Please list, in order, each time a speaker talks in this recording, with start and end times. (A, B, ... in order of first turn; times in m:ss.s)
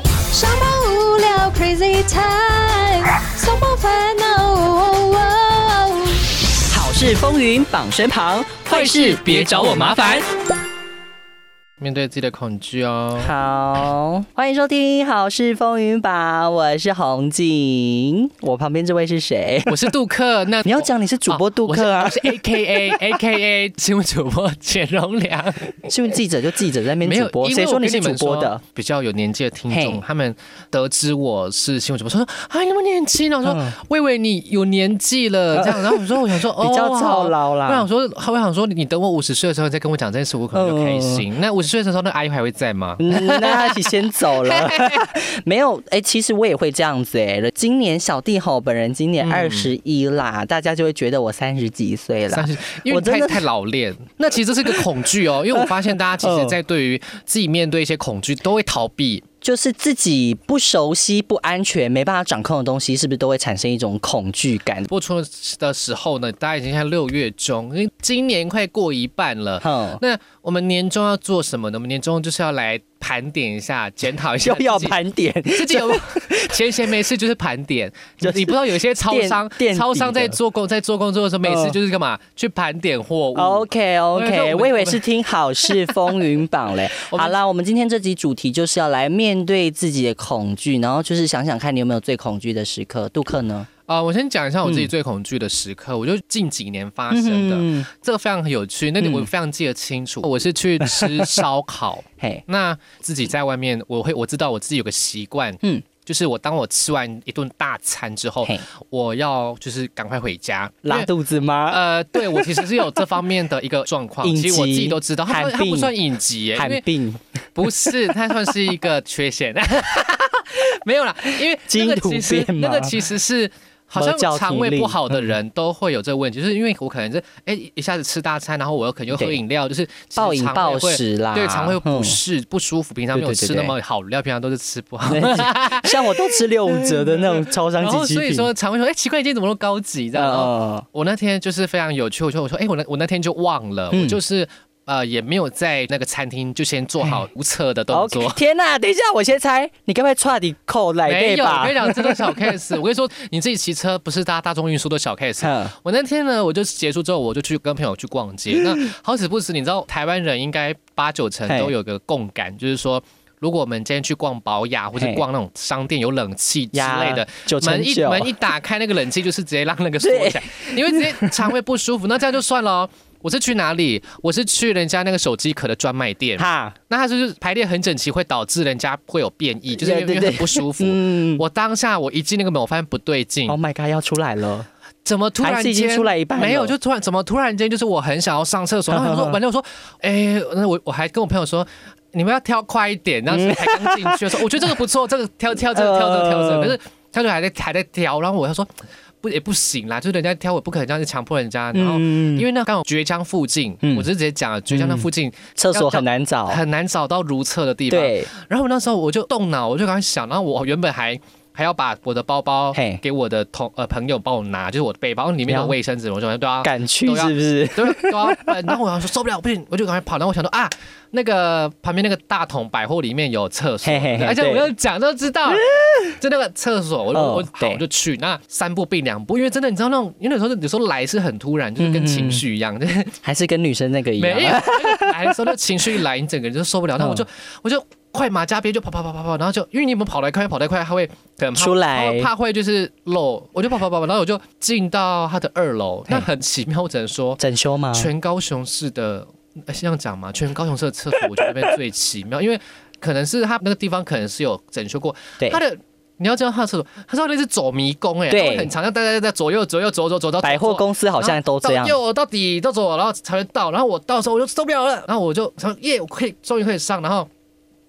0:00.3-0:06.2 A
0:06.7-0:10.2 B
0:08.7-0:10.2 C
0:11.8-0:13.3 C
0:13.2-0:19.9 B
0:19.7-0:25.9 C
0:20.6-0:22.4 B
0:25.8-0:28.6 B
0:27.0-0:43.9 C
0:29.7-0:30.0 B
0:33.4-0:33.7 B
0:35.5-0:37.9 B
0:40.5-0:41.2 B
0:43.0-0:53.4 B
0:44.5-0:45.0 C
0:49.2-0:49.7 C
0:52.3-0:59.2 C
0:55.5-0:56.6 B
0:59.4-1:04.9 B
1:04.9-1:15.0 C
1:09.6-1:10.0 B
1:14.4-1:16.7 B
1:15.5-1:25.0 C
1:18.2-1:20.4 B
1:21.4-1:21.8 B
1:23.3-1:33.7 B
1:25.6-1:26.1 C
1:26.9-1:27.4 C
1:33.9-1:51.1 C
1:34.6-1:34.9 B
1:37.1-1:37.9 B
1:39.0-1:39.3 B
1:40.8-1:41.4 B
1:42.2-1:42.4 B
1:50.8-1:52.9 B
1:51.7-1:56.8 C
1:54.2-1:55.9 B
1:56.5-1:58.5 B
1:57.5-2:28.4 C
2:01.7-2:03.0 B
2:03.9-2:05.3 B
2:09.1-2:09.4 B
2:10.2-2:12.2 B
2:13.1-2:13.7 B
2:15.0-2:18.5 B
2:20.1-2:20.8 B
2:23.9-2:24.2 B
2:27.9-2:32.5 B
2:31.0-3:03.6 C
2:35.4-2:35.7 B
2:41.5-2:41.7 B
2:45.0-2:45.2 B
2:46.7-2:48.3 B
2:50.0-2:51.5 B
2:56.4-2:56.8 B
2:59.7-3:01.4 B
3:03.5-3:04.7 B
3:05.0-3:18.7 C
3:05.4-3:06.7 B
3:08.9-3:09.4 B
3:13.3-3:14.7 B
3:15.6-3:16.8 B
3:19.2-3:53.2 C
3:21.7-3:22.4 B
3:24.7-3:26.6 B
3:27.9-3:28.3 B
3:32.7-3:33.0 B
3:35.4-3:35.7 B
3:36.6-3:38.7 B
3:43.8-3:44.7 B
3:45.5-3:46.1 B
3:47.1-3:47.8 B
3:51.8-3:52.4 B
3:53.2-3:55.5 B
3:54.2-4:07.4 C
3:57.0-3:57.2 B
4:01.6-4:02.3 B
4:07.4-4:08.1 B
4:07.9-4:27.3 C
4:18.3-4:18.7 B
4:20.4-4:22.0 B